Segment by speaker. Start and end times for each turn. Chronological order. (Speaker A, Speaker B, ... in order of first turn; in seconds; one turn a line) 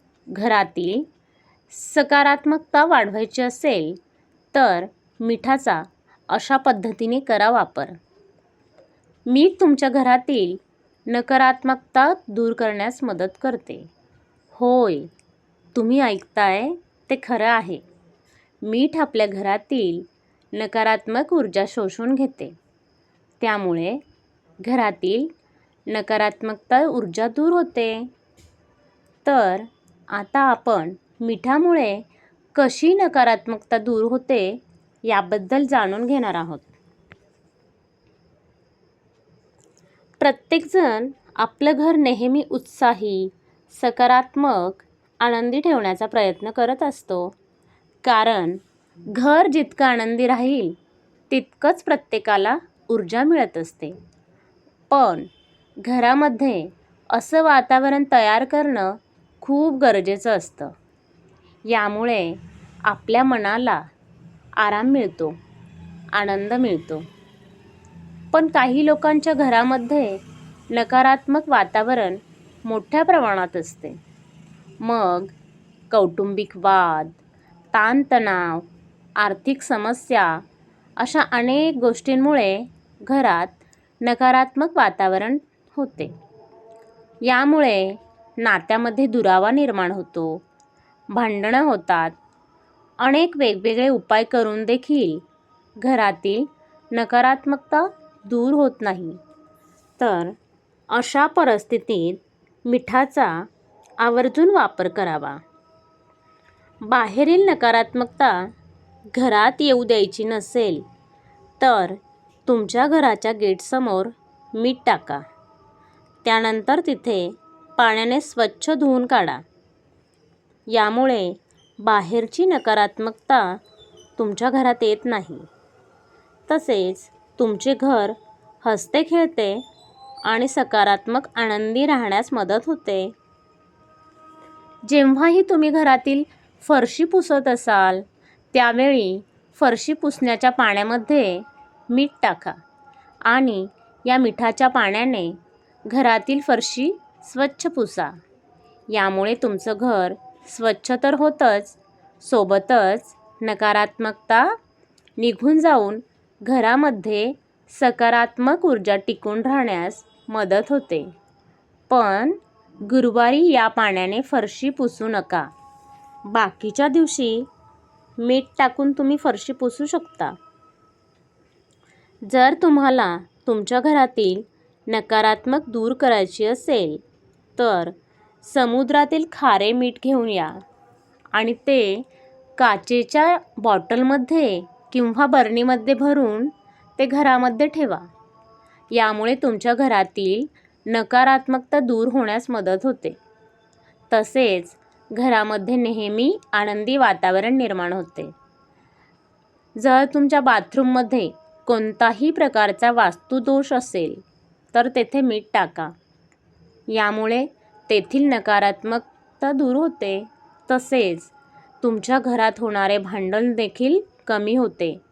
Speaker A: 0.3-1.1
Speaker A: 1.7-4.0
Speaker A: 4.5-8.0
Speaker A: 9.2-13.9
Speaker A: 14.5-15.1
Speaker A: 15.7-17.8
Speaker A: 18.6-22.5
Speaker A: 23.4-24.0
Speaker A: 24.6-25.3
Speaker A: 25.9-28.1
Speaker A: 29.2-32.0
Speaker A: 32.5-36.7
Speaker A: 40.2-47.4
Speaker A: 48.0-50.8
Speaker A: 51.3-54.0
Speaker A: 54.9-55.3
Speaker A: 55.8-60.7
Speaker A: 61.6-63.8
Speaker A: 64.6-65.4
Speaker A: 66.1-67.0
Speaker A: 68.3-74.0
Speaker A: 74.8-75.3
Speaker A: 75.9-77.2
Speaker A: 77.7-80.4
Speaker A: 81.0-86.1
Speaker A: 87.2-90.4
Speaker A: 91.1-92.2
Speaker A: 93.0-95.2
Speaker A: 95.8-99.2
Speaker A: 100.0-100.3
Speaker A: 100.9-103.5
Speaker A: 104.0-105.4
Speaker A: 106.8-108.5
Speaker A: 109.1-110.8
Speaker A: 111.6-115.2
Speaker A: 116.2-119.4
Speaker A: 120.7-123.6
Speaker A: 124.2-125.5
Speaker A: 126.5-129.6
Speaker A: 130.2-133.1
Speaker A: 134.8-142.6
Speaker A: 143.2-148.1
Speaker A: 148.9-154.5
Speaker A: 155.2-161.1
Speaker A: 161.9-165.5
Speaker A: 166.3-167.5
Speaker A: 168.2-170.3
Speaker A: 172.2-177.0
Speaker A: 177.6-180.6
Speaker A: 181.3-188.1
Speaker A: 188.9-193.2
Speaker A: 194.1-198.3
Speaker A: 199.8-205.9
Speaker A: 206.9-215.0